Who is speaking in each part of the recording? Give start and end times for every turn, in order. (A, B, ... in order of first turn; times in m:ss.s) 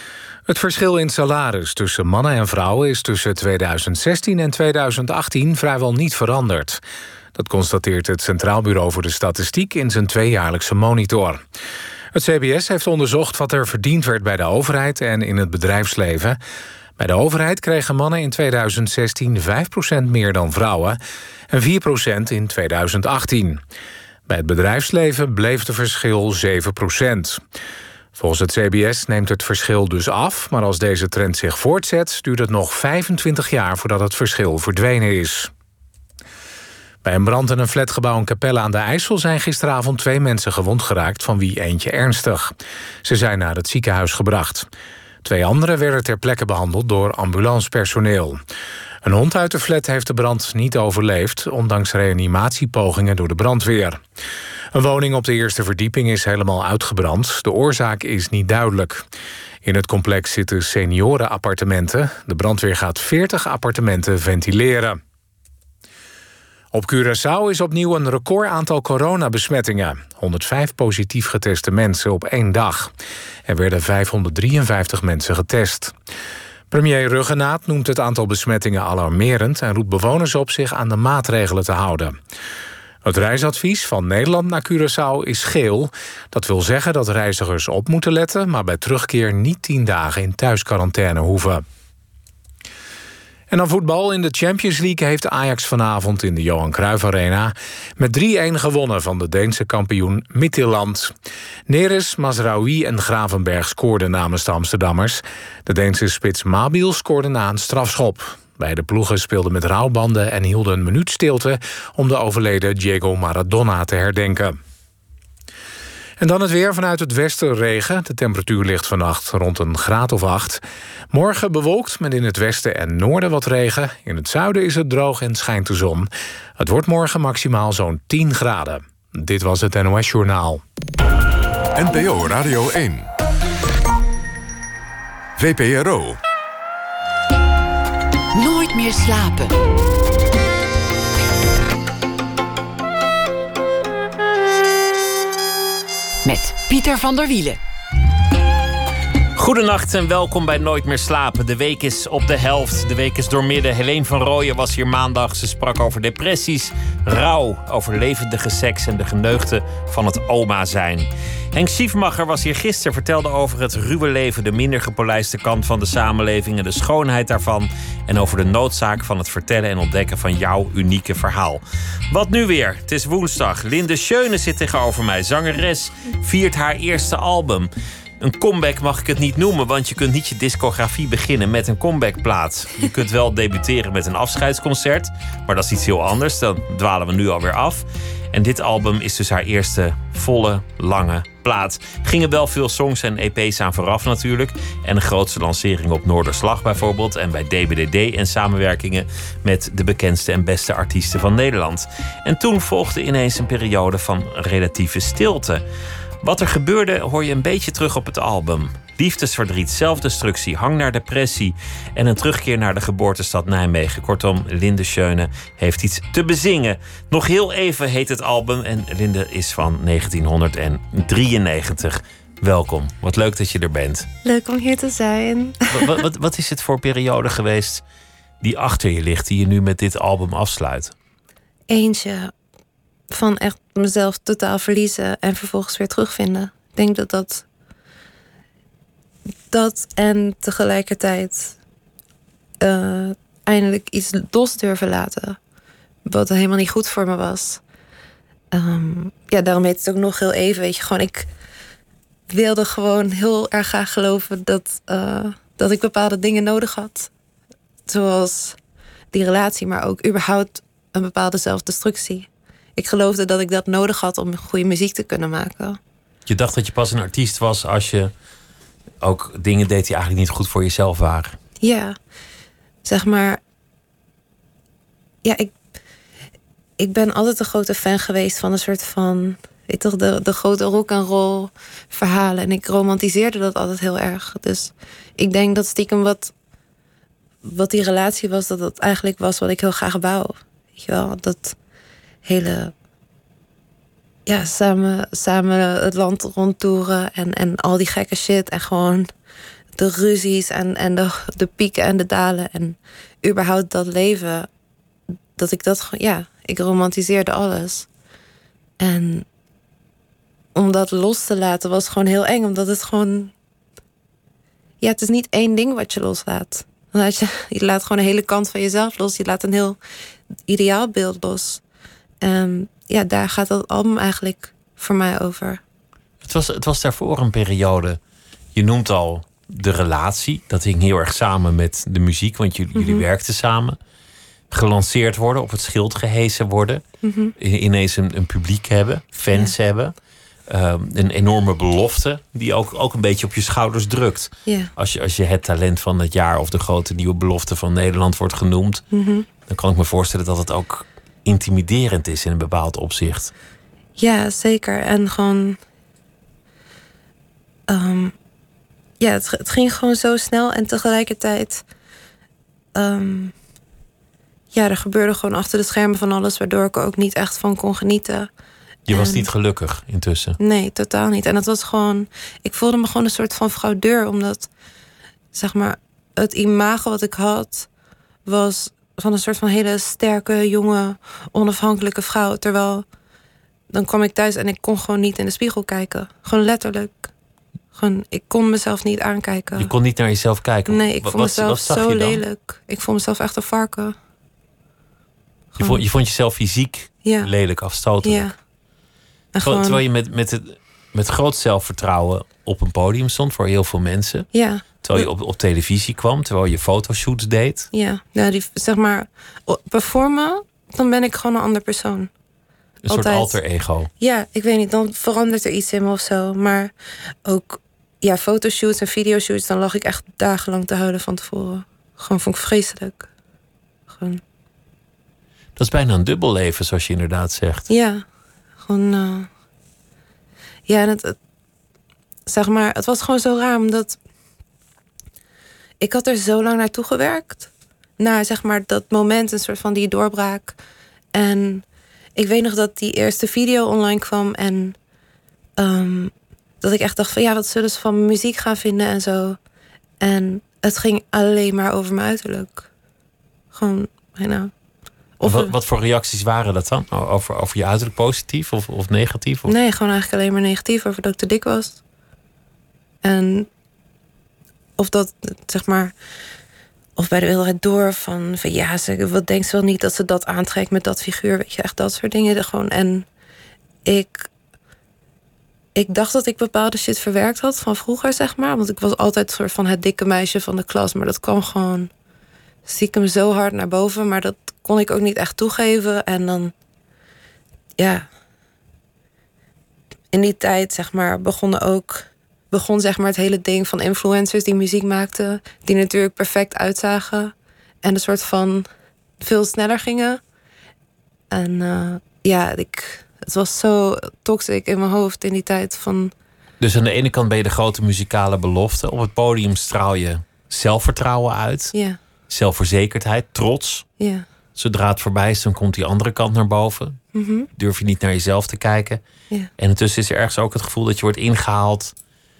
0:00.4-0:06.8 A
0:07.3-0:11.4 A
0:12.1-0:16.4 A
0:17.0-0:21.0 A
0:21.5-0:23.6 A
0:24.3-0:27.4 A
0:28.1-0:35.5 A
0:37.0-0:44.7 A
0:45.2-0:48.4 A
0:49.0-0:54.0 A
0:54.7-0:59.0 A
0:59.6-1:05.0 A
1:06.7-1:12.9 A
1:13.4-1:15.9 A
1:16.7-1:22.2 A
1:23.0-1:31.6 A
1:33.5-1:41.1 A
1:41.7-1:54.6 A
1:56.2-2:10.6 A
2:11.8-2:13.1 B
2:15.4-2:16.2 B
2:18.3-2:19.5 C
2:26.2-2:27.6 C
2:29.3-3:25.6 D
3:26.2-3:44.1 D
3:44.2-3:46.0 E
3:45.7-3:47.8 D
3:48.4-3:50.9 D
3:51.7-3:52.3 E
3:53.1-3:57.4 E
3:59.5-4:01.6 E
4:02.6-4:05.4 E
4:06.0-4:07.6 E
4:08.5-4:11.3 E
4:12.3-4:17.1 E
4:17.9-4:18.6 E
4:19.1-4:25.8 E
4:26.2-4:28.1 D
4:29.0-4:31.4 D
4:31.6-4:31.9 E
4:32.8-4:33.4 E
4:35.2-4:35.5 E
4:36.8-4:46.3 E
4:47.4-4:51.6 E
4:52.2-4:52.7 E
4:54.2-4:59.1 E
4:59.8-5:04.5 E
5:05.4-5:07.9 E
5:08.8-5:09.2 E
5:10.5-5:13.3 E
5:14.8-5:19.8 E
5:20.5-5:21.6 E
5:22.2-5:25.6 E
5:26.2-5:28.0 D
5:28.5-5:33.8 D
5:32.7-5:33.0 E
5:34.5-5:36.8 D
5:37.0-5:37.3 E
5:37.4-5:39.9 D
5:40.5-5:48.8 D
5:44.4-5:44.7 E
5:48.9-5:49.2 E
5:49.5-5:53.3 D
5:54.0-5:55.6 E
5:57.7-5:58.1 E
5:59.0-6:01.6 E
6:02.7-6:03.3 E
6:04.5-6:08.3 E
6:08.9-6:10.4 D
6:08.9-6:09.3 E
6:10.4-6:14.5 E
6:15.3-6:17.7 E
6:18.2-6:22.8 E
6:23.7-6:27.1 E
6:27.7-6:29.7 E
6:29.5-6:32.2 D
6:30.7-6:33.9 E
6:35.6-6:38.3 D
6:37.0-6:37.3 E
6:38.0-6:38.3 E
6:39.3-6:39.8 E
6:39.4-6:47.7 D
6:44.3-6:45.1 E
6:47.7-6:52.1 E
6:52.8-6:53.9 D
6:52.9-6:53.4 E
6:54.0-6:56.7 E
6:57.2-7:03.1 E
7:03.9-7:04.2 E
7:05.6-7:07.7 D
7:07.7-7:08.0 E
7:08.6-7:09.3 E
7:10.7-7:11.2 E
7:12.2-7:14.0 E
7:15.8-7:20.6 E
7:21.1-7:21.6 E
7:22.2-7:24.8 E
7:25.6-7:29.4 E
7:30.0-7:32.7 E
7:33.5-7:34.5 E
7:35.2-7:35.5 E
7:35.2-7:39.5 D
7:39.5-7:41.8 E
7:43.0-7:43.5 E
7:44.8-7:45.9 E
7:47.0-7:53.1 E
7:53.8-7:54.3 E
7:55.7-8:01.9 E
8:02.6-8:06.5 E
8:07.8-8:08.1 E
8:10.1-8:18.7 E
8:19.2-8:20.2 E
8:21.3-8:26.1 E
8:26.6-8:31.7 D
8:31.7-8:32.0 E
8:32.3-8:33.9 D
8:34.0-8:34.2 E
8:34.6-8:39.0 D
8:37.1-8:37.5 E
8:39.6-8:41.9 D